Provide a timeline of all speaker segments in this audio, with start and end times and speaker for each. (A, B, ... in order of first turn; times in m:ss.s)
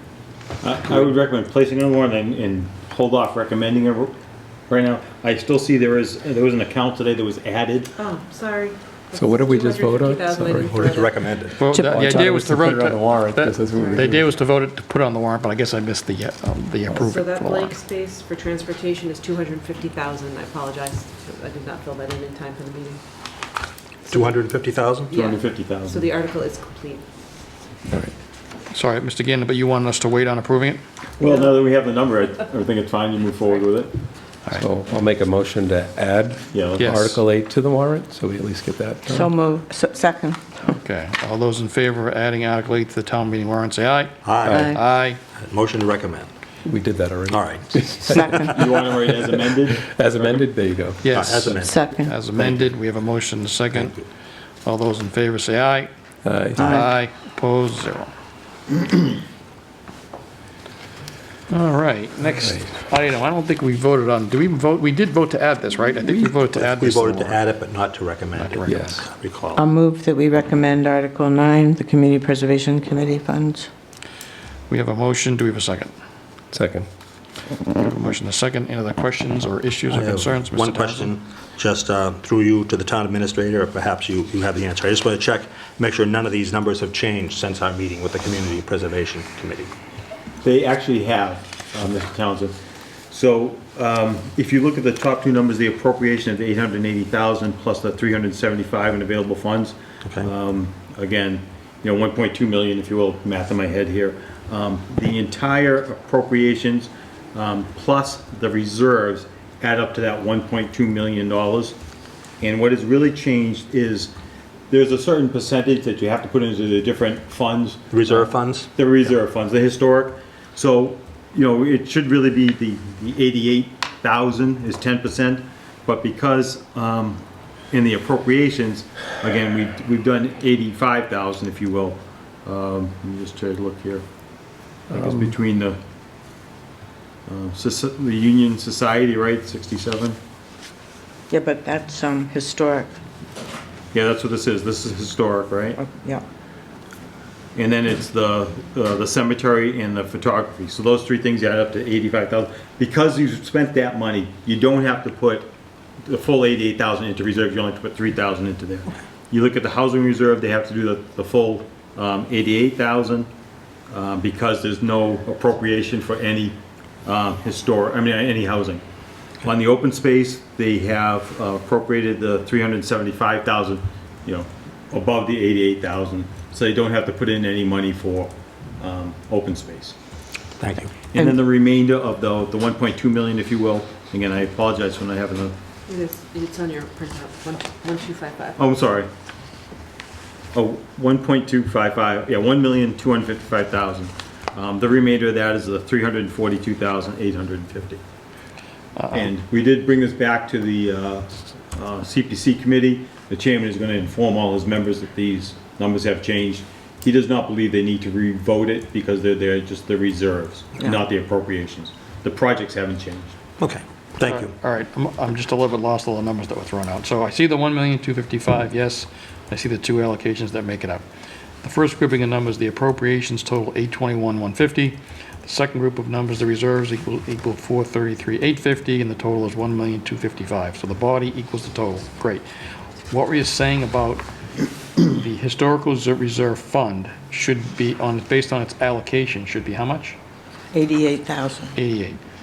0:00.6-0:04.1 A
0:04.7-0:07.9 A
0:08.0-0:11.2 B
0:09.1-0:10.9 C
0:10.6-0:11.6 D
0:11.6-0:17.8 E
0:11.7-0:12.1 F
0:11.8-0:14.3 C
0:13.8-0:14.1 B
0:16.9-0:23.0 B
0:24.0-0:25.1 D
0:25.1-0:27.0 B
0:25.1-0:26.1 A
0:28.7-0:30.8 E
0:31.2-0:33.9 A
0:34.5-0:39.3 C
0:36.5-0:37.2 A
0:36.8-0:37.2 E
0:39.1-0:40.4 F
0:40.7-0:45.2 E
0:44.2-0:44.8 D
0:44.5-0:44.8 F
0:45.3-0:46.3 D
0:46.6-0:51.5 C
0:47.3-0:48.4 D
0:48.0-0:48.5 F
0:48.5-0:50.3 A
0:51.0-0:53.9 E
0:51.1-0:51.8 D
0:51.6-0:52.1 F
0:52.4-0:52.7 D
0:53.7-0:54.0 D
0:54.6-0:55.9 E
0:56.2-0:56.8 C
0:56.5-0:58.1 E
0:56.6-0:56.9 F
1:01.5-1:07.4 E
1:02.4-1:02.8 C
1:06.5-1:09.6 D
1:08.4-1:09.0 E
1:08.7-1:08.9 C
1:09.5-1:13.7 F
1:14.7-1:15.9 E
1:16.5-1:16.9 C
1:17.7-1:21.1 E
1:19.9-1:29.7 D
1:30.4-1:32.6 A
1:33.1-1:51.8 A
1:40.0-1:40.3 D
1:52.4-1:54.1 A
1:54.7-2:14.0 A
1:57.9-1:58.7 D
2:14.9-2:15.8 A
2:15.0-2:15.2 C
2:17.3-2:20.2 A
2:21.3-2:22.9 F
2:23.9-2:25.8 A
2:25.8-2:26.2 F
2:27.5-2:35.5 A
2:36.0-2:43.3 A
2:43.9-2:48.8 A
2:49.4-3:00.0 A
3:00.6-3:00.9 D
3:01.1-3:05.6 A
3:05.9-3:08.6 B
3:08.6-3:09.1 A
3:10.5-3:18.0 A
3:19.0-3:19.3 E
3:19.1-3:33.4 A
3:33.6-3:34.5 D
3:34.2-3:41.0 E
3:41.6-3:52.4 E
3:53.1-3:54.2 E
3:55.0-4:00.2 E
4:00.7-4:01.8 F
4:01.7-4:02.2 E